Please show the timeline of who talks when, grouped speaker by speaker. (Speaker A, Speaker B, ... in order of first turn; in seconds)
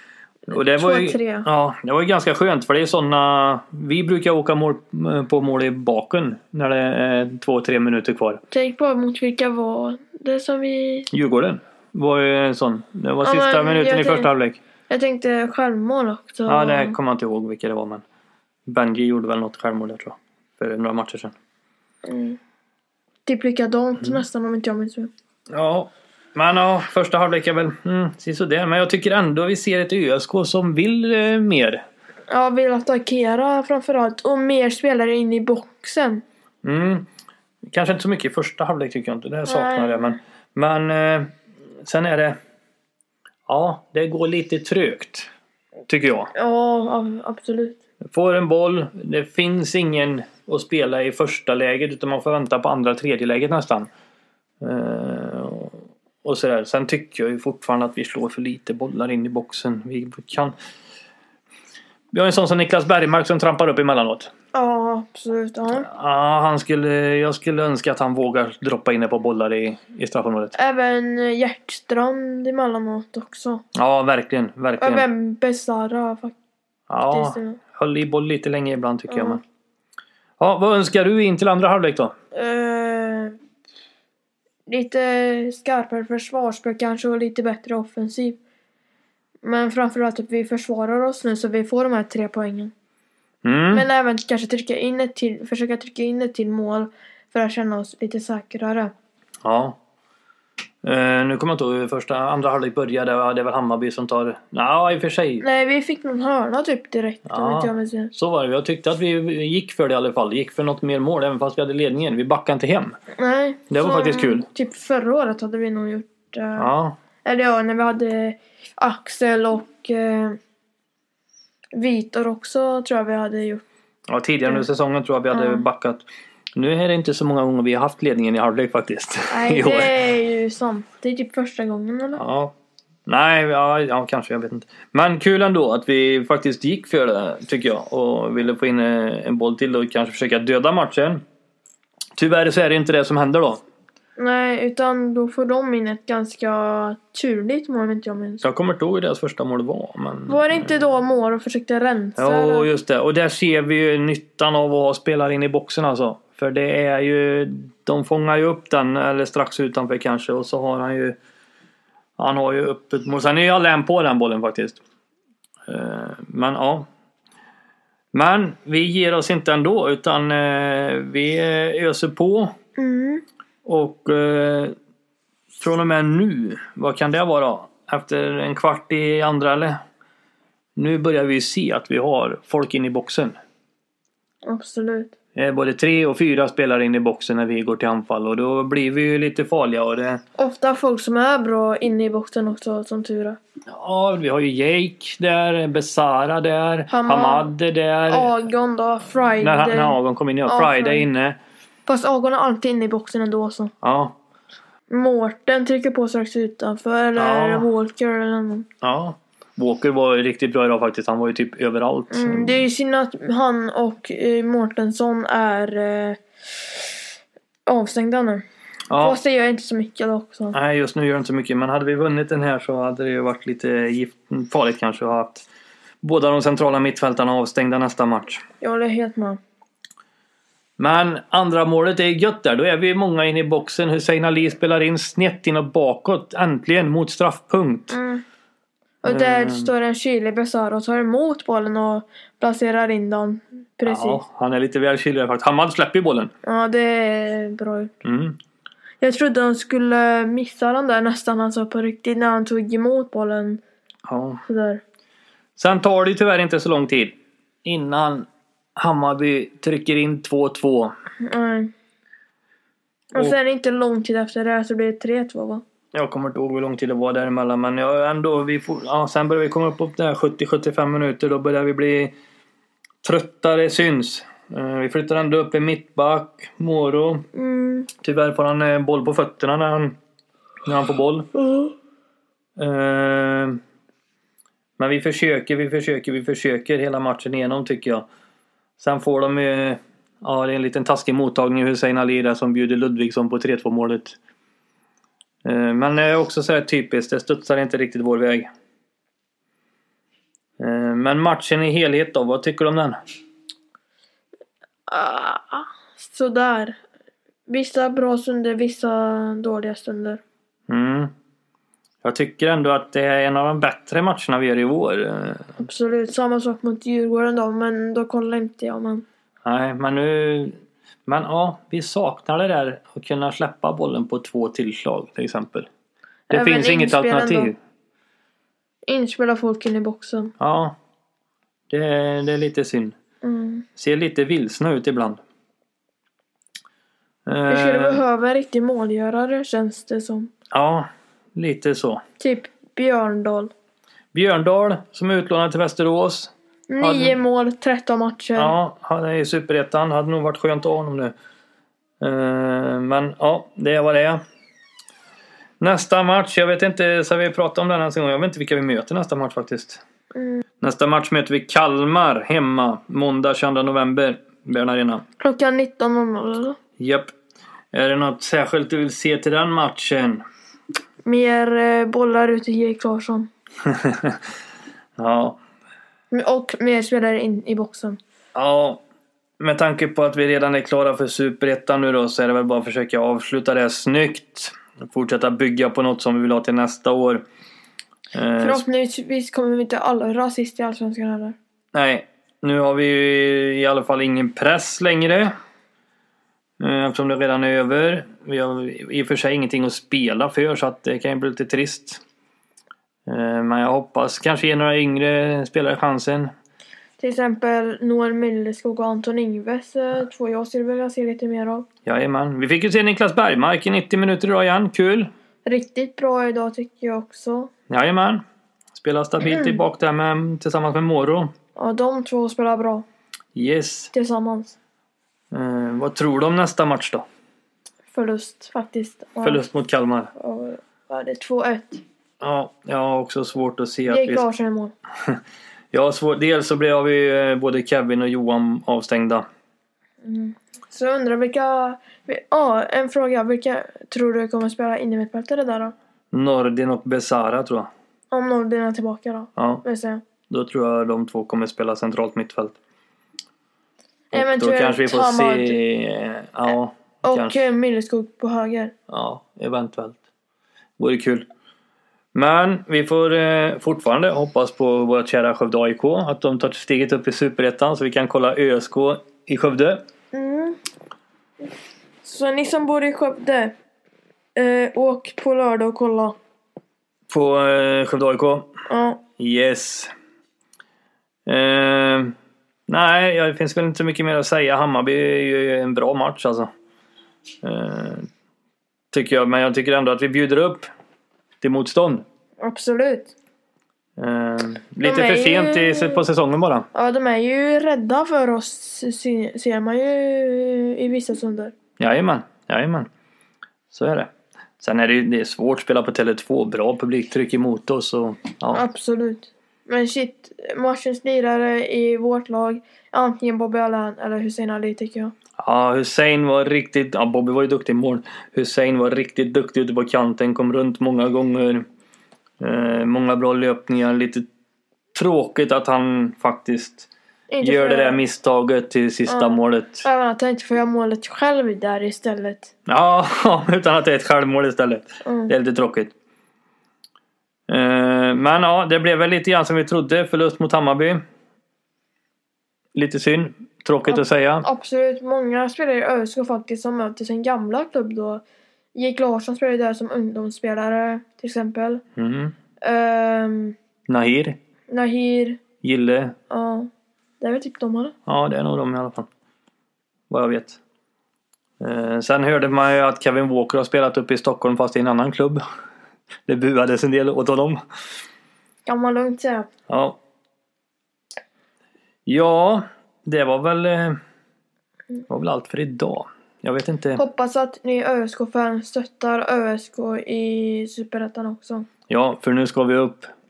Speaker A: 0.5-1.4, 8.5-11.1, 13.2-14.3, 14.9-17.0, 22.1-22.4, 23.2-25.1, 32.3-36.2, 39.5-40.2, 46.3-47.8, 64.5-65.9, 70.5-73.6, 74.8-76.3, 77.1-77.6, 79.1-79.4, 82.3-83.3, 84.7-88.4, 89.4-92.7, 93.7-98.9, 105.4-108.1, 113.2-116.7, 117.2-120.4, 121.7-123.7, 125.3-125.7, 129.3-132.2, 144.2-148.4, 150.3-152.7, 172.8-173.2, 184.4-185.1, 190.4-193.4, 196.9-197.5, 198.1-201.1, 201.8-203.7, 204.9-208.7, 212.1-216.2, 217.7-218.4, 218.9-220.6, 228.6-229.4, 237.9-238.2, 239.0-244.2, 246.4-247.9, 249.0-253.6, 254.4-254.8, 261.2-261.7, 263.1-265.6, 277.3-277.9, 304.9-306.8, 307.5-310.2, 315.6-319.0, 326.3-327.5, 328.9-330.3, 333.2-333.7, 337.5-340.3, 342.2-343.5, 346.7-348.6, 360.1-360.4, 365.2-366.6, 371.1-373.3, 376.1-378.0, 388.4-391.4, 407.0-411.7, 415.4-417.5, 421.6-422.9, 423.9-424.6, 427.9-429.4, 430.2-431.8, 433.9-434.7, 440.0-445.7, 448.1-450.0, 454.1-455.6, 457.0-458.7, 470.1-470.6, 472.0-473.5, 474.4-476.2, 478.7-479.0, 492.4-493.1, 494.8-496.1, 496.7-501.5, 508.5-515.1, 527.3-528.0, 529.1-532.5, 535.0-535.3, 543.9-548.2, 548.7-551.8, 552.6-553.5, 554.7-555.4, 556.3-556.7, 557.2-557.9, 568.6-569.5, 577.0-581.7
Speaker B: 0.5-8.4, 11.1-14.6, 16.5-18.0, 18.7-21.4, 25.5-31.8, 36.6-37.1, 37.7-42.4, 43.5-45.3, 45.9-46.3, 48.1-53.9, 54.6-60.5, 62.1-64.3, 65.7-70.5, 73.7-75.1, 76.9-79.4, 80.4-82.1, 93.4-93.9, 99.4-99.8, 100.8-105.5, 107.3-113.0, 113.7-114.5, 116.6-117.0, 124.1-126.0, 126.6-129.9, 132.2-132.5, 133.1-141.2, 142.2-143.6, 148.4-150.7, 152.2-161.2, 162.2-164.8, 165.7-166.9, 168.1-172.5, 173.7-174.7, 175.6-179.8, 180.8-183.3, 185.3-190.2, 193.7-198.3, 199.4-201.4, 203.8-204.2, 207.2-207.7, 208.8-212.6, 218.9-219.2, 220.5-225.4, 226.0-228.4, 230.8-238.0, 239.1-239.7, 243.8-246.3, 248.0-248.4, 254.1-254.4, 255.6-260.9, 265.9-272.1, 273.0-277.3, 278.0-279.9, 280.6-281.3, 282.6-283.6, 284.8-288.0, 288.8-294.2, 295.4-298.5, 300.6-303.0, 310.7-311.1, 312.0-315.6, 319.4-320.6, 321.1-325.7, 326.3-327.6, 330.4-330.7, 331.7-332.9, 333.8-335.2, 337.3-338.0, 340.5-342.0, 344.1-347.2, 348.4-351.1, 352.0-354.2, 355.6-359.8, 360.6-365.0, 366.8-367.1, 367.7-370.2, 373.7-374.2, 375.0-375.4, 378.3-378.8, 379.4-387.2, 388.1-388.6, 391.7-395.3, 396.6-402.0, 403.1-406.3, 411.9-415.1, 417.7-418.2, 418.7-421.3, 423.3-423.9, 425.3-427.0, 429.2-430.1, 432.2-434.3, 435.7-439.2, 446.1-447.7, 449.4-449.6, 450.3-452.6, 454.1-457.5, 458.9-460.0, 460.8-461.2, 462.1-469.8, 477.1-478.5, 479.2-479.9, 481.3-482.1, 482.7-486.5, 487.4-488.1, 488.9-490.7, 491.4-492.1, 494.0-496.7, 501.8-502.9, 503.7-508.6, 515.4-521.6, 522.4-524.3, 524.9-526.9, 527.4-529.9, 532.7-535.9, 537.5-541.0, 542.7-544.5, 552.0-552.4, 553.9-554.4, 555.6-556.1, 558.0-559.1, 560.1-560.6, 561.6-565.4, 566.3-567.6, 569.7-570.0, 572.0-574.0, 575.1-577.0, 581.9-583.1